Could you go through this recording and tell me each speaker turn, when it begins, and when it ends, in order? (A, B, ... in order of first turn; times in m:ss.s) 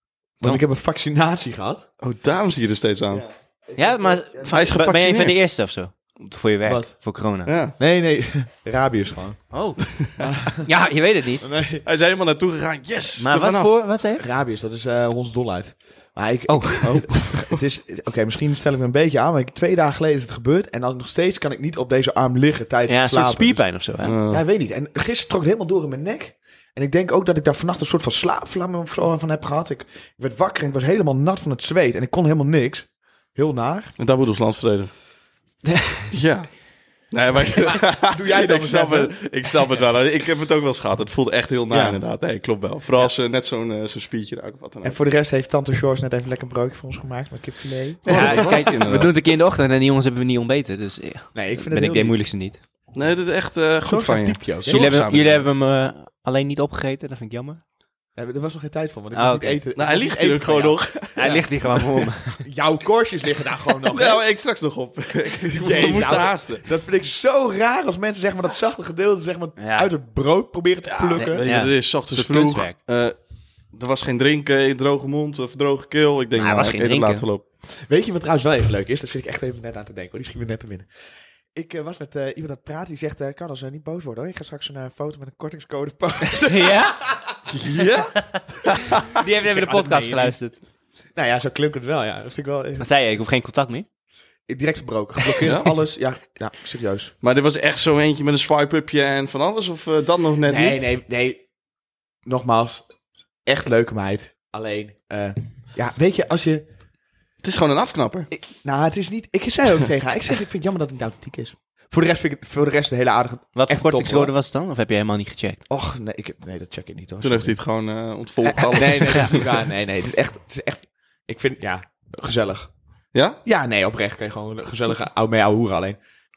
0:00.4-0:01.8 A
0:02.0-0:03.2 B
0:03.1-0:04.6 A
0:03.8-0:07.5 C
0:04.5-0:05.4 B
0:06.6-0:06.9 A
0:07.4-0:07.8 B
0:07.8-0:09.4 A
0:09.5-0:09.8 C
0:10.2-0:10.7 A
0:10.6-0:11.4 C
0:11.4-0:11.8 A
0:11.8-0:13.8 B
0:13.2-0:14.2 C
0:14.2-0:23.7 A
0:16.5-0:17.1 C
0:22.9-0:24.2 C
0:24.0-0:24.4 B
0:24.3-0:33.9 A
0:34.0-0:34.9 B
0:35.6-0:36.1 C
0:36.1-0:36.5 B
0:37.1-0:45.0 B
0:37.6-0:39.1 A
0:41.7-0:42.0 A
0:44.8-0:48.7 A
0:48.0-0:49.1 B
0:48.0-0:52.6 C
0:51.3-0:52.2 A
0:52.9-0:55.4 B
0:53.8-0:54.8 A
0:54.6-0:57.6 C
0:58.1-1:01.5 A
0:59.1-0:59.6 C
0:59.8-1:01.8 B
1:01.1-1:02.4 C
1:02.4-1:04.2 A
1:03.9-1:06.6 B
1:05.5-1:11.4 A
1:09.6-1:09.9 C
1:10.8-1:13.1 B
1:11.2-1:12.8 C
1:13.7-1:17.4 B
1:16.4-1:17.2 C
1:17.7-1:20.9 A
1:21.5-1:27.4 A
1:26.4-1:27.0 C
1:27.5-1:29.0 B
1:28.0-1:28.4 C
1:29.1-1:30.6 C
1:29.4-1:30.4 A
1:31.1-1:32.9 A
1:32.8-1:33.8 C
1:34.5-1:37.1 A
1:35.4-1:35.8 B
1:37.2-1:40.8 B
1:40.5-1:41.4 A
1:42.2-1:42.8 A
1:43.4-1:46.7 A
1:47.4-1:48.3 B
1:48.3-1:54.3 A
1:53.5-1:55.6 C
1:55.7-1:57.6 A
1:57.2-1:59.6 B
1:58.7-2:02.7 A
1:58.8-1:59.3 C
2:03.1-2:03.4 B
2:03.4-2:06.0 A